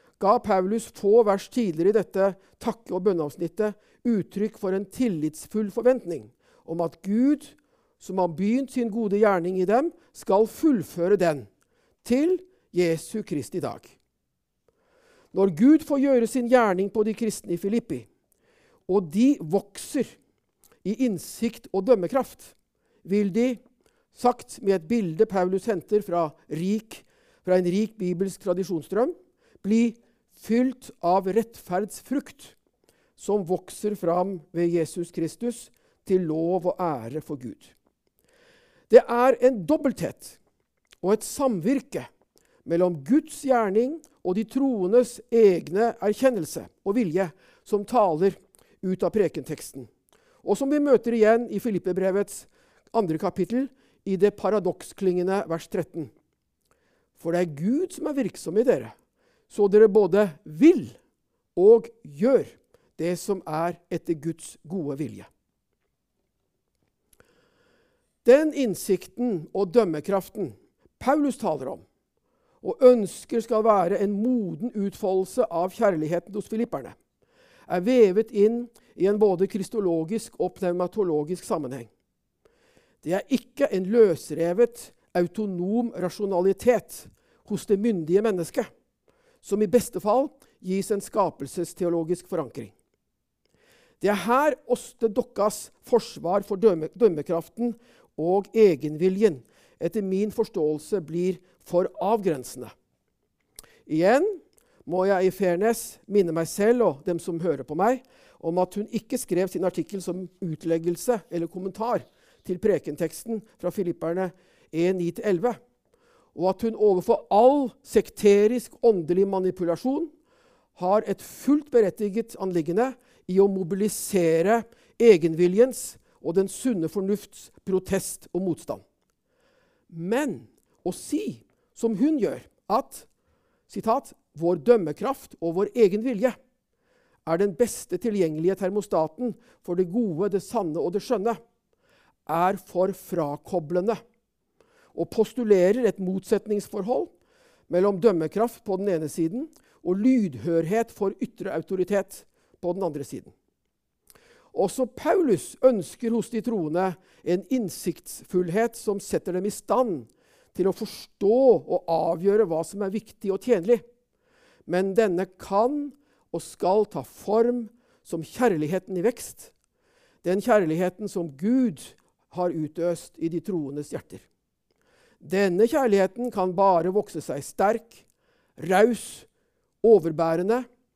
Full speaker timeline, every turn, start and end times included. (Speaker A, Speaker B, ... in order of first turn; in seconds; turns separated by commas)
Speaker A: 0.2-11.5, Speaker A: 12.0-13.9, Speaker A: 15.3-18.1, Speaker A: 18.9-20.2, Speaker A: 20.8-23.6, Speaker A: 24.1-32.5, Speaker A: 33.2-37.7, Speaker A: 38.9-40.4, Speaker A: 41.0-42.1, Speaker A: 42.6-49.9, Speaker A: 50.4-56.1, Speaker A: 57.1-58.9, Speaker A: 59.5-61.0, Speaker A: 61.5-65.3, Speaker A: 68.2-71.8, Speaker A: 72.6-77.0, Speaker A: 77.7-81.9, Speaker A: 83.0-88.7, Speaker A: 89.4-92.7, Speaker A: 94.0-102.7, Speaker A: 103.9-115.6, Speaker A: 116.3-120.1, Speaker A: 120.8-128.8, Speaker A: 129.9-133.1, Speaker A: 133.7-136.3, Speaker A: 137.2-141.4, Speaker A: 142.3-144.0, Speaker A: 144.9-147.1, Speaker A: 147.7-153.3, Speaker A: 154.5-163.8, Speaker A: 164.7-169.5, Speaker A: 170.2-174.2, Speaker A: 175.2-178.0, Speaker A: 178.6-179.3, Speaker A: 179.8-180.7